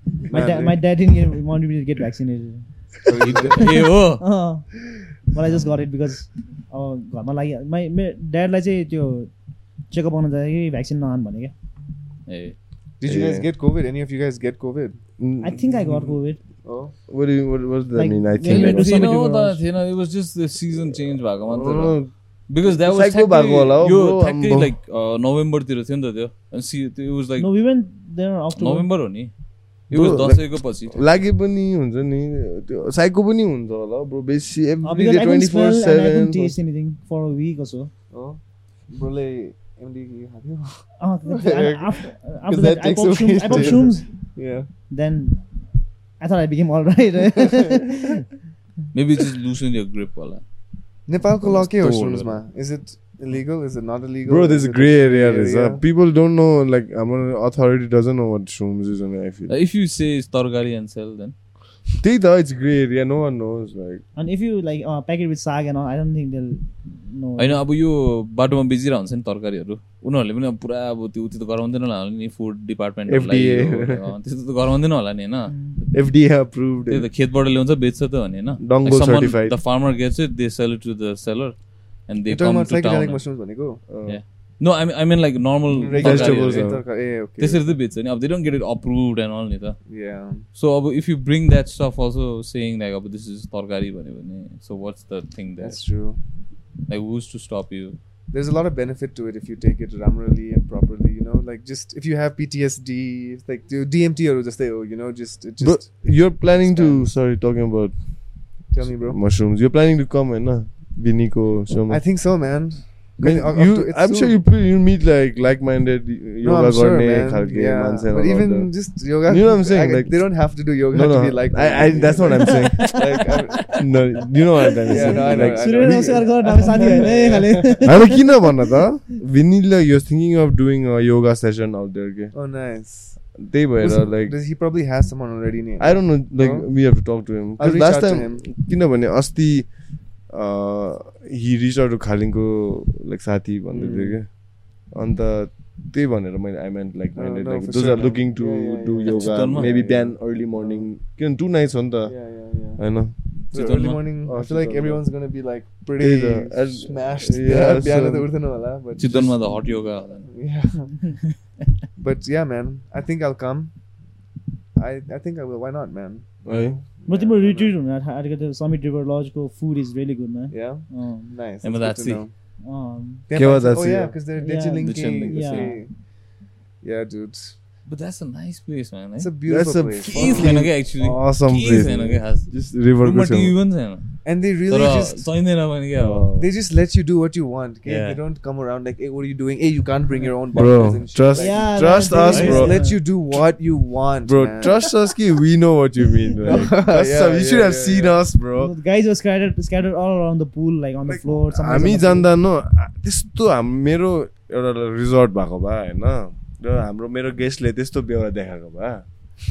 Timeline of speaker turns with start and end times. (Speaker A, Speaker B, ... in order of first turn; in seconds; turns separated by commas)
Speaker A: 0.3-0.8, Speaker B: 0.3-2.6, Speaker A: 3.0-3.8, Speaker C: 3.2-4.2, Speaker B: 4.2-4.7, Speaker B: 5.3-9.3, Speaker B: 9.9-11.5, Speaker C: 12.3-12.6, Speaker A: 13.0-15.0, Speaker D: 13.1-13.4, Speaker D: 15.2-16.2, Speaker B: 15.4-16.4, Speaker A: 16.6-16.9, Speaker D: 17.1-19.2, Speaker B: 17.9-19.6, Speaker C: 18.4-27.5, Speaker D: 21.5-22.1, Speaker D: 22.8-24.7, Speaker B: 27.4-28.9, Speaker C: 28.6-29.3, Speaker C: 29.9-31.0, Speaker D: 29.9-36.5, Speaker B: 34.8-37.9, Speaker A: 38.1-44.7, Speaker B: 41.0-44.1, Speaker B: 44.9-45.4, Speaker B: 46.2-48.2, Speaker C: 48.9-50.4, Speaker A: 51.1-55.8, Speaker C: 51.4-52.4, Speaker D: 54.2-59.5, Speaker C: 59.5-61.3, Speaker D: 62.0-64.0, Speaker B: 64.2-67.6, Speaker C: 67.4-75.5, Speaker D: 73.1-74.0, Speaker B: 75.5-75.8, Speaker D: 75.9-77.1, Speaker C: 76.9-83.2, Speaker D: 78.6-79.6, Speaker A: 82.3-83.8, Speaker D: 83.9-84.2, Speaker C: 84.0-86.8, Speaker A: 85.7-87.7, Speaker D: 86.0-86.8, Speaker C: 87.4-89.8, Speaker A: 89.9-90.4, Speaker C: 90.5-95.8, Speaker A: 95.6-96.2, Speaker C: 96.9-98.0, Speaker A: 98.3-107.1, Speaker D: 105.6-112.0, Speaker A: 108.7-109.2, Speaker A: 111.9-114.4, Speaker D: 113.2-126.2, Speaker A: 116.4-123.8, Speaker B: 122.3-123.8, Speaker B: 124.7-128.5, Speaker A: 124.9-128.0, Speaker D: 127.8-132.3, Speaker A: 132.3-133.2, Speaker D: 133.4-134.3, Speaker A: 133.8-136.7, Speaker D: 135.8-139.7, Speaker A: 137.6-138.5, Speaker D: 140.3-144.3, Speaker A: 143.7-144.2, Speaker D: 144.9-153.1, Speaker A: 147.2-150.9, Speaker C: 149.0-149.8, Speaker A: 152.1-161.0, Speaker C: 153.5-154.0, Speaker D: 154.2-155.0, Speaker D: 156.0-158.3, Speaker C: 159.0-160.3, Speaker A: 162.0-163.7, Speaker A: 164.8-167.7, Speaker D: 166.4-166.8, Speaker B: 167.1-171.3, Speaker A: 170.5-172.3, Speaker C: 171.6-172.2, Speaker B: 172.6-173.2, Speaker A: 173.3-175.9, Speaker D: 173.3-174.2, Speaker B: 174.4-175.8, Speaker C: 174.8-175.7, Speaker A: 176.8-177.5, Speaker C: 177.9-179.3, Speaker A: 179.2-180.7, Speaker D: 179.4-183.5, Speaker C: 180.0-184.2, Speaker A: 184.2-185.3, Speaker C: 184.7-186.2, Speaker D: 186.0-186.5, Speaker A: 186.3-194.9, Speaker C: 187.8-188.2, Speaker D: 190.5-192.8, Speaker B: 191.3-193.0, Speaker C: 192.3-192.7, Speaker D: 194.2-198.7, Speaker A: 196.4-198.2, Speaker B: 198.6-202.3, Speaker D: 201.1-209.0